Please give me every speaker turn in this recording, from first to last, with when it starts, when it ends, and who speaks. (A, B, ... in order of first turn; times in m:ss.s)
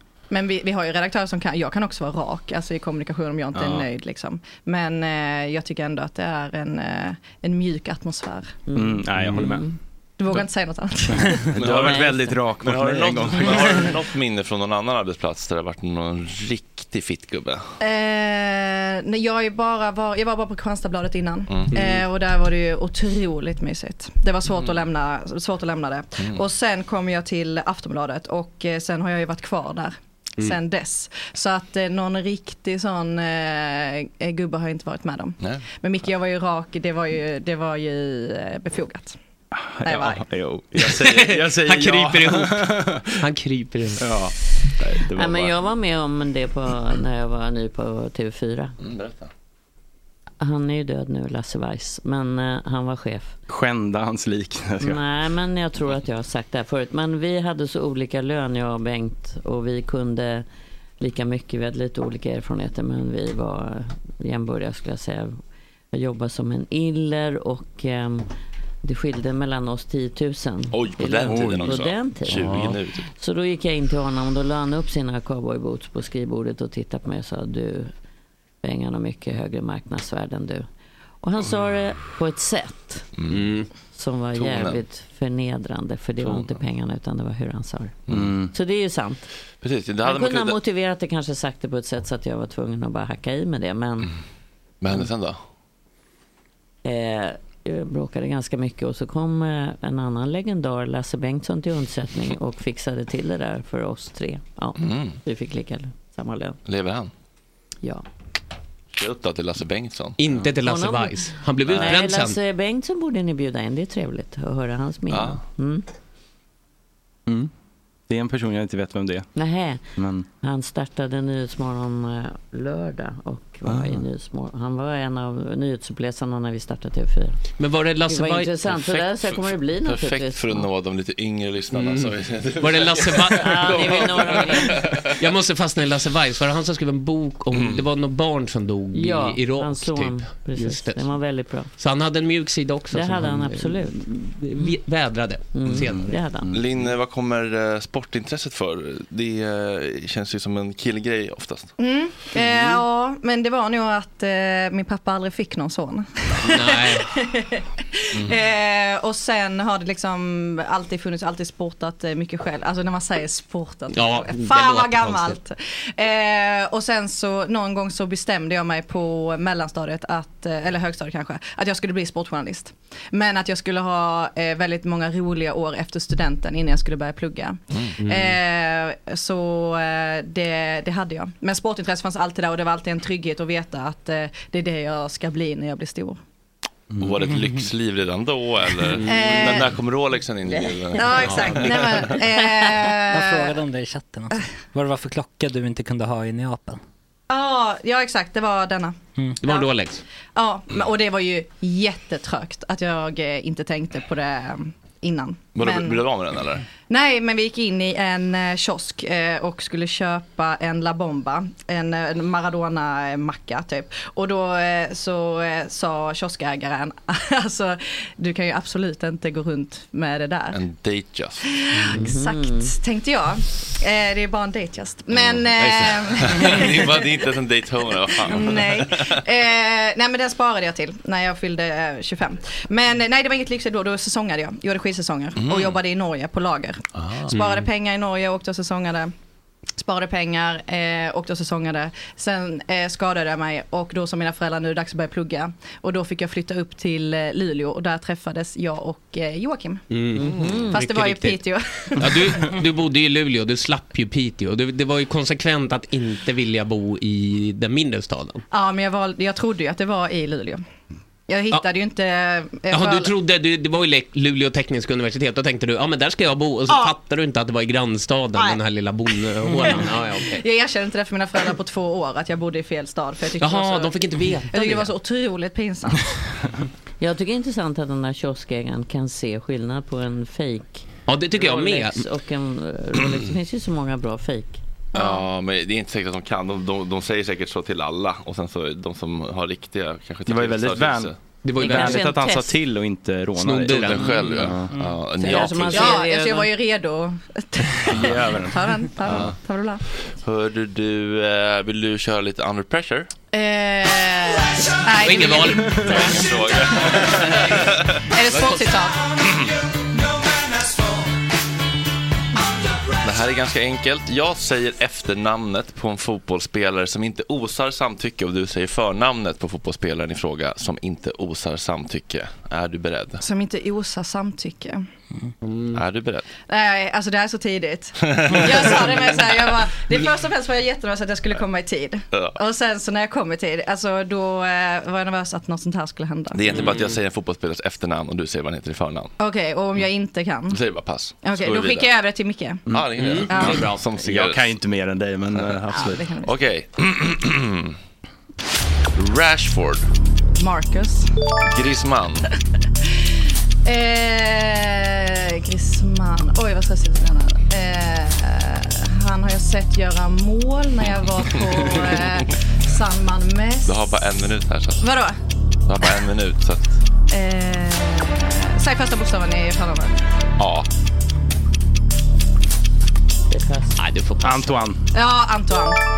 0:00.3-0:08.6 A
0:03.5-0:03.9 B
0:08.7-0:09.8 C
0:08.7-0:09.7 B
0:10.2-0:11.5 A
0:11.1-0:14.0 B
0:11.6-0:17.6 D
0:17.8-0:39.2 A
0:21.5-0:21.8 D
0:21.7-0:22.0 E
0:26.2-0:26.4 D
0:39.5-0:43.3 B
0:39.8-0:40.2 A
0:40.8-0:44.1 E
0:44.0-0:45.5 B
0:45.1-0:48.8 C
0:48.8-0:49.3 D
0:50.4-0:53.4 C
0:53.5-0:55.0 B
0:54.8-1:00.4 C
1:01.0-1:05.4 C
1:05.9-1:08.3 C
1:08.8-1:17.9 C
1:10.7-1:13.1 D
1:11.3-1:11.8 B
1:12.3-1:12.8 E
1:18.6-1:20.7 C
1:21.2-1:23.1 C
1:23.2-1:23.5 D
1:23.3-1:23.7 E
1:23.9-1:29.3 C
1:24.4-1:24.8 D
1:26.2-1:26.6 D
1:28.1-1:28.3 D
1:28.1-1:28.5 B
1:29.6-1:30.6 D
1:30.0-1:34.1 C
1:34.8-1:35.4 D
1:36.8-1:46.6 C
1:44.8-1:45.2 D
1:46.7-1:47.1 D
1:48.9-1:50.2 D
1:50.2-1:52.4 E
1:50.6-1:55.8 C
1:51.7-1:52.0 D
1:55.1-1:55.4 D
1:58.1-1:59.3 B
1:59.4-1:59.9 C
2:00.0-2:00.3 B
2:00.4-2:07.4 C
2:03.6-2:04.0 B
2:07.6-2:08.8 E
2:08.1-2:10.7 C
2:09.2-2:15.2 D
2:11.7-2:21.1 E
2:13.4-2:14.8 C
2:17.5-2:17.9 D
2:18.9-2:21.7 C
2:21.8-2:26.2 E
2:22.9-2:24.1 C
2:25.5-2:26.5 C
2:25.7-2:26.9 B
2:26.5-2:31.7 D
2:31.8-3:06.2 A
2:32.4-2:32.7 D
2:36.4-2:37.1 E
2:43.9-2:45.4 E
2:58.0-2:58.4 E
3:06.9-3:07.2 B
3:07.0-3:12.2 D
3:08.9-3:09.2 E
3:09.0-3:09.8 A
3:11.0-3:13.6 A
3:11.2-3:11.6 E
3:13.1-3:16.8 F
3:17.3-3:19.7 A
3:19.4-3:20.0 E
3:20.4-3:26.0 A
3:25.6-3:26.6 D
3:26.9-3:40.6 A
3:40.5-3:41.4 D
3:41.4-3:47.1 A
3:41.9-3:42.7 C
3:45.1-3:49.2 D
3:48.2-3:59.1 A
3:55.4-3:55.8 D
3:56.9-3:57.6 D
3:59.8-4:09.8 A
4:09.9-4:11.4 E
4:10.2-4:10.8 C
4:10.7-4:12.6 A
4:12.0-4:18.4 E
4:18.5-4:20.6 A
4:21.3-4:23.1 A
4:22.7-4:30.4 E
4:29.5-4:34.0 A
4:33.4-4:34.9 E
4:34.5-4:36.2 A
4:37.0-4:40.8 C
4:41.1-4:42.0 E
4:41.4-4:44.6 C
4:44.9-4:45.2 A
4:45.0-4:51.1 D
4:50.3-4:54.8 B
4:51.4-4:52.0 E
4:51.6-4:52.6 C
4:53.4-4:54.4 E
4:53.7-4:56.0 D
4:55.2-4:56.5 C
4:55.7-4:59.8 A
4:57.9-4:59.4 B
4:59.1-4:59.3 D
5:00.2-5:03.1 D
5:03.3-5:07.4 A
5:05.0-5:06.3 E
5:05.9-5:08.0 D
5:07.0-5:07.3 E
5:08.1-5:09.1 A
5:08.3-5:08.6 E
5:09.2-5:09.5 D
5:13.0-5:23.2 D
5:23.2-5:24.8 A
5:25.4-5:25.8 E
5:25.7-5:26.3 D
5:26.4-5:36.7 A
5:28.0-5:29.4 D
5:32.1-5:32.4 D
5:36.3-5:39.1 D
5:36.5-5:37.0 E
5:39.2-5:40.6 A
5:40.5-5:41.9 D
5:41.2-5:42.7 A
5:42.7-5:43.0 B
5:42.7-5:44.6 D
5:43.0-5:43.8 E
5:43.3-5:43.7 A
5:44.0-5:46.1 B
5:45.7-5:46.4 A
5:46.2-5:47.8 D
5:49.0-5:49.9 D
5:50.4-5:51.1 A
5:51.5-5:52.3 D
5:53.6-6:03.9 A
6:01.7-6:02.1 D
6:03.6-6:04.9 D
6:04.8-6:05.2 A
6:05.7-6:06.7 D
6:07.1-6:10.0 A
6:10.4-6:10.7 D
6:13.3-6:13.8 C
6:13.8-6:14.5 E
6:14.2-6:14.8 B
6:14.9-6:15.8 A